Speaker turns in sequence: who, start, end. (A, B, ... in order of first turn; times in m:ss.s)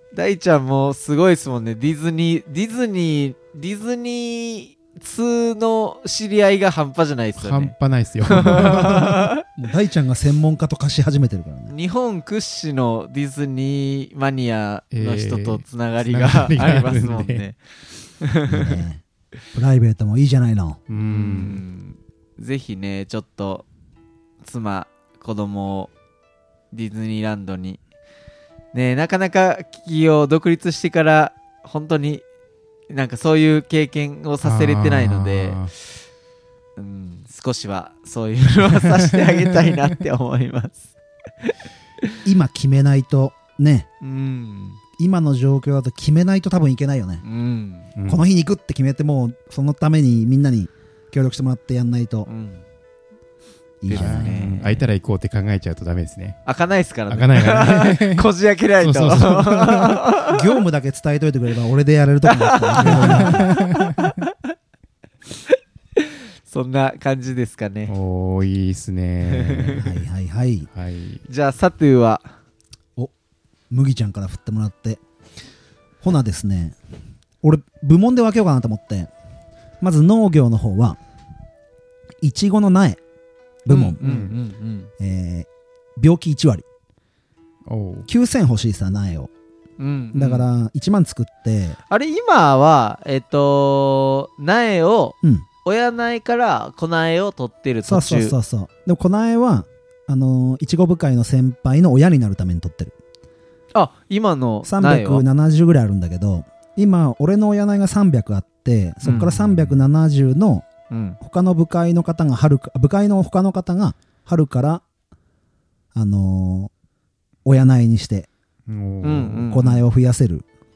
0:00.1-0:09.4 A
0:07.4-0:09.2 B
0:08.4-0:11.7 C
0:11.7-0:17.6 A
0:14.9-0:17.4 B
0:18.2-0:18.8 A
0:18.5-0:20.8 C
0:20.9-0:21.6 B
0:21.1-0:23.6 A
0:24.4-0:25.9 A
0:26.7-0:27.8 A
0:28.7-0:32.2 A
0:32.9-0:35.7 A
0:34.4-0:35.7 B
0:36.8-0:42.1 A
0:39.2-0:39.7 B
0:42.2-0:43.9 C
0:44.0-0:44.8 A
0:45.0-0:47.2 C
0:47.2-0:47.9 A
0:48.0-0:48.2 B
0:48.0-0:52.3 C
0:52.2-0:52.6 A
0:53.8-0:54.3 C
0:53.9-0:54.8 A
0:53.9-0:56.4 B
0:56.4-1:00.4 A
0:57.1-0:58.3 B
0:58.8-1:00.0 B
1:00.2-1:03.5 C
1:02.3-1:04.3 A
1:02.8-1:04.1 B
1:05.5-1:07.9 A
1:07.9-1:09.9 B
1:09.2-1:09.8 A
1:09.8-1:10.7 C
1:10.7-1:11.2 B
1:11.3-1:12.3 A
1:13.7-1:15.0 C
1:16.0-1:16.8 C
1:17.4-1:19.1 C
1:19.8-1:21.0 C
1:22.2-1:23.0 C
1:23.6-1:24.0 C
1:23.7-1:24.9 A
1:24.0-1:24.3 B
1:25.0-1:26.6 C
1:27.7-1:28.1 B
1:28.1-1:29.3 C
1:29.8-1:30.5 A
1:30.1-1:31.8 C
1:31.9-1:38.4 A
1:37.8-1:42.9 C
1:43.7-1:45.2 A
1:44.6-1:50.6 C
1:49.0-1:49.3 A
1:49.2-1:49.8 B
1:50.9-1:51.2 A
1:51.2-1:54.8 C
1:55.9-1:56.7 C
1:57.4-1:58.3 C
1:58.7-1:59.5 B
1:59.0-1:59.8 A
1:59.5-2:00.4 C